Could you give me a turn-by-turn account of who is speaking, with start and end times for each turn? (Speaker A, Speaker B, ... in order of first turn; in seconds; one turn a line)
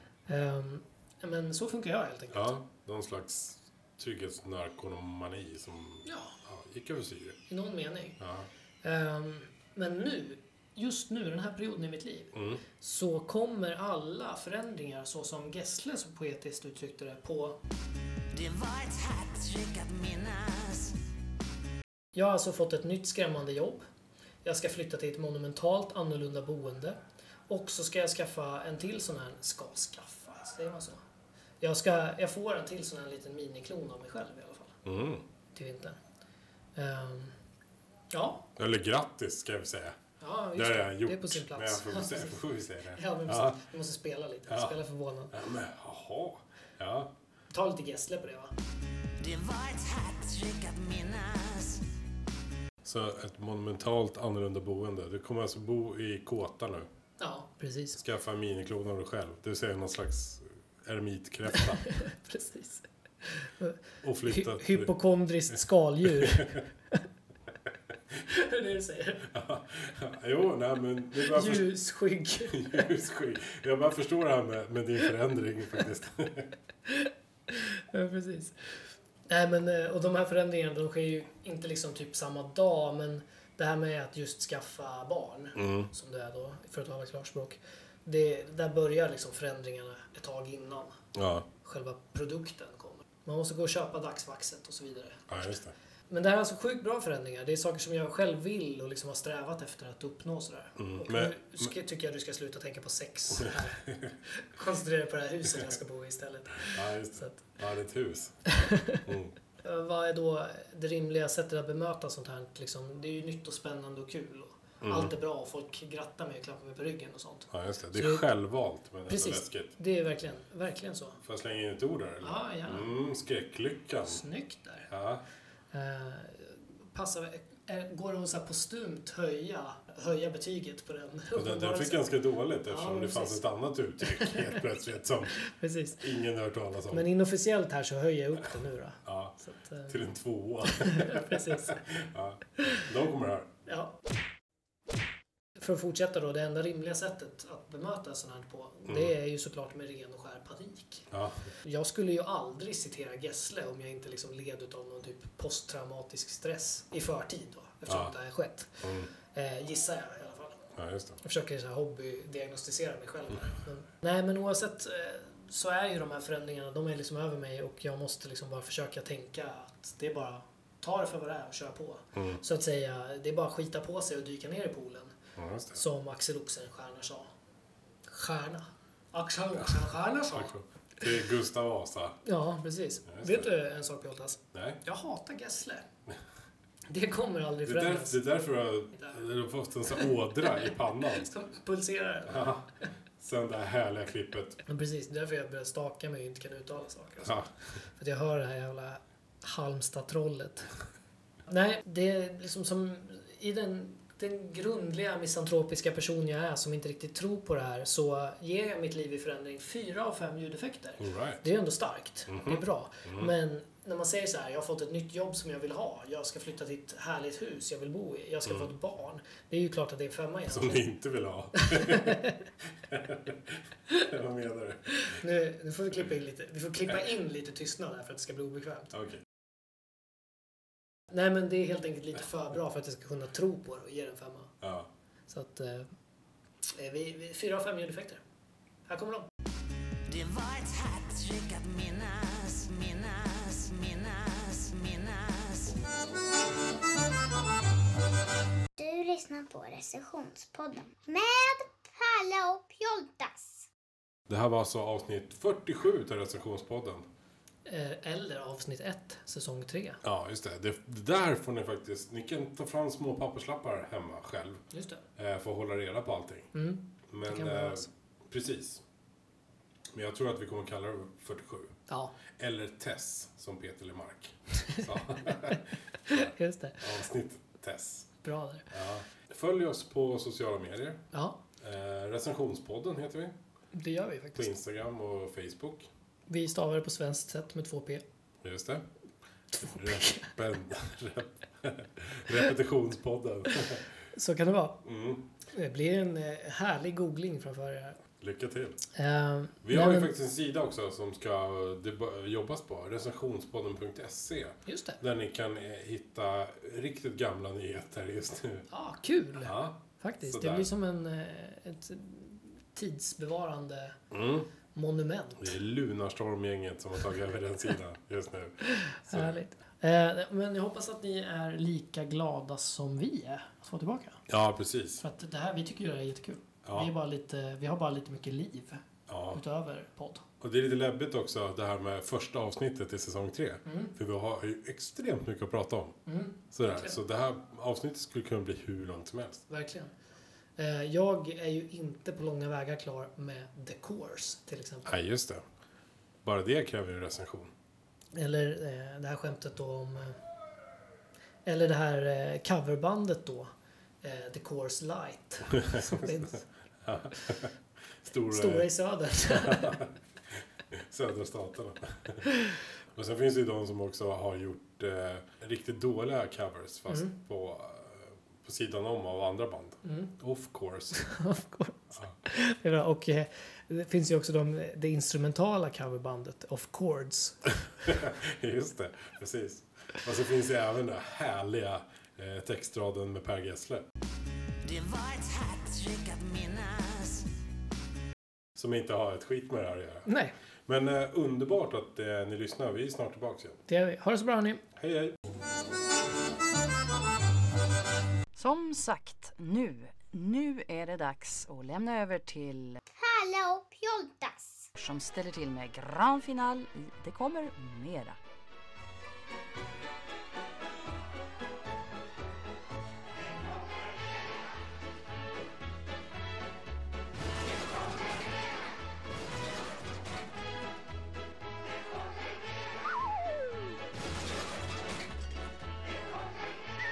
Speaker A: 0.3-2.5
Speaker B: 2.3-7.4
Speaker A: 6.0-6.3
Speaker A: 7.5-8.2
Speaker B: 8.2-8.5
Speaker A: 8.8-17.6
Speaker B: 12.3-12.6
Speaker C: 18.3-21.0
Speaker A: 22.1-23.9
Speaker A: 24.4-31.0
Speaker A: 31.6-34.8
Speaker B: 34.9-35.2
Speaker A: 35.5-36.0
Speaker A: 36.8-37.4
Speaker A: 38.1-38.5
Speaker B: 38.6-40.0
Speaker A: 40.2-42.4
Speaker B: 40.5-43.6
Speaker A: 42.9-45.3
Speaker B: 44.5-44.8
Speaker B: 45.3-47.1
Speaker A: 47.5-48.5
Speaker C: 49.2-51.9
Speaker B: 52.8-56.9
Speaker A: 57.2-58.0
Speaker B: 58.0-61.9
Speaker A: 61.7-67.0
Speaker B: 64.0-64.9
Speaker B: 66.1-66.6
Speaker A: 68.3-69.3
Speaker B: 69.3-71.7
Speaker A: 71.2-72.9
Speaker B: 72.5-76.5
Speaker A: 76.9-91.0
Speaker B: 85.5-85.9
Speaker B: 91.1-91.5
Speaker A: 91.5-95.5
Speaker B: 95.3-95.7
Speaker A: 96.1-107.4
Speaker B: 100.8-101.7
Speaker B: 103.8-104.1
Speaker B: 106.7-109.3
Speaker A: 108.5-109.0
Speaker A: 109.6-118.2
Speaker B: 114.8-115.1
Speaker B: 117.5-119.7
Speaker A: 119.1-121.2
Speaker B: 121.2-124.2
Speaker A: 122.2-122.9
Speaker A: 124.0-124.9
Speaker B: 124.9-125.2
Speaker A: 125.7-132.1
Speaker B: 131.3-135.4
Speaker A: 132.7-133.4
Speaker A: 134.0-134.6
Speaker A: 135.4-136.1
Speaker B: 136.0-137.1
Speaker A: 136.9-140.0
Speaker B: 139.1-143.5
Speaker A: 140.7-141.8
Speaker A: 143.7-144.0
Speaker A: 145.6-151.1
Speaker B: 148.9-149.1
Speaker B: 151.1-151.5
Speaker A: 151.6-160.7
Speaker B: 157.9-158.1
Speaker B: 158.8-159.1
Speaker B: 160.7-161.2
Speaker A: 161.2-175.2
Speaker B: 172.1-172.4
Speaker B: 175.4-175.8
Speaker A: 175.7-177.3
Speaker A: 178.1-180.5
Speaker B: 180.3-182.2
Speaker A: 182.2-185.9
Speaker B: 183.1-183.4
Speaker B: 184.5-184.8
Speaker A: 186.9-188.2
Speaker B: 187.6-191.3
Speaker A: 190.6-192.6
Speaker B: 192.3-194.6
Speaker A: 194.6-197.4
Speaker B: 197.2-197.5
Speaker A: 197.9-200.7
Speaker A: 201.5-220.8
Speaker B: 211.0-211.4
Speaker B: 212.3-213.3
Speaker B: 220.5-222.2
Speaker A: 221.6-222.4
Speaker B: 222.8-225.2
Speaker A: 225.1-228.9
Speaker B: 228.9-229.2
Speaker A: 231.1-234.5
Speaker B: 234.6-234.9
Speaker A: 235.3-235.9
Speaker A: 236.6-238.2
Speaker A: 238.9-239.3
Speaker C: 240.1-245.7
Speaker D: 248.8-253.7
Speaker B: 254.3-257.1
Speaker A: 257.6-260.0
Speaker B: 260.0-264.6
Speaker A: 264.7-265.0
Speaker B: 265.2-266.5
Speaker A: 266.5-267.9
Speaker B: 267.1-268.8
Speaker B: 269.9-271.8
Speaker A: 271.9-272.1
Speaker B: 272.4-278.1
Speaker A: 276.1-276.9
Speaker A: 278.2-278.7
Speaker B: 278.7-281.0
Speaker A: 281.1-281.4
Speaker B: 281.6-283.4
Speaker A: 283.7-284.5
Speaker B: 284.4-285.9
Speaker A: 286.3-288.0
Speaker B: 288.4-288.9
Speaker A: 289.5-290.3
Speaker B: 289.6-293.9
Speaker A: 294.1-294.8
Speaker B: 294.8-295.2
Speaker A: 295.4-298.0
Speaker B: 298.2-298.8
Speaker A: 298.9-300.1
Speaker B: 299.6-308.7
Speaker A: 304.7-305.0
Speaker A: 308.7-314.0
Speaker B: 309.4-310.7
Speaker B: 314.1-314.5
Speaker A: 314.7-315.5
Speaker B: 315.4-319.4
Speaker A: 318.6-324.2
Speaker B: 324.3-325.0
Speaker A: 325.0-328.8
Speaker B: 326.6-326.9
Speaker B: 329.1-329.4
Speaker A: 329.3-330.3
Speaker B: 330.4-336.0
Speaker A: 333.7-333.9
Speaker A: 336.1-337.0
Speaker B: 336.5-339.4
Speaker A: 339.5-339.9
Speaker A: 340.6-345.0
Speaker B: 344.9-345.4
Speaker B: 346.2-347.5
Speaker A: 348.1-350.2
Speaker A: 351.4-353.5
Speaker A: 354.0-356.4
Speaker B: 355.5-358.7
Speaker A: 358.3-359.8
Speaker B: 359.3-359.9
Speaker B: 360.7-362.3
Speaker B: 362.9-371.1
Speaker A: 369.9-370.1
Speaker A: 370.9-377.5
Speaker B: 377.9-383.9
Speaker C: 384.6-387.3
Speaker B: 388.6-390.1
Speaker A: 390.1-390.3
Speaker B: 390.7-393.6
Speaker A: 393.7-394.6
Speaker B: 394.8-395.2
Speaker E: 398.3-402.8
Speaker D: 402.9-404.7
Speaker E: 404.8-408.2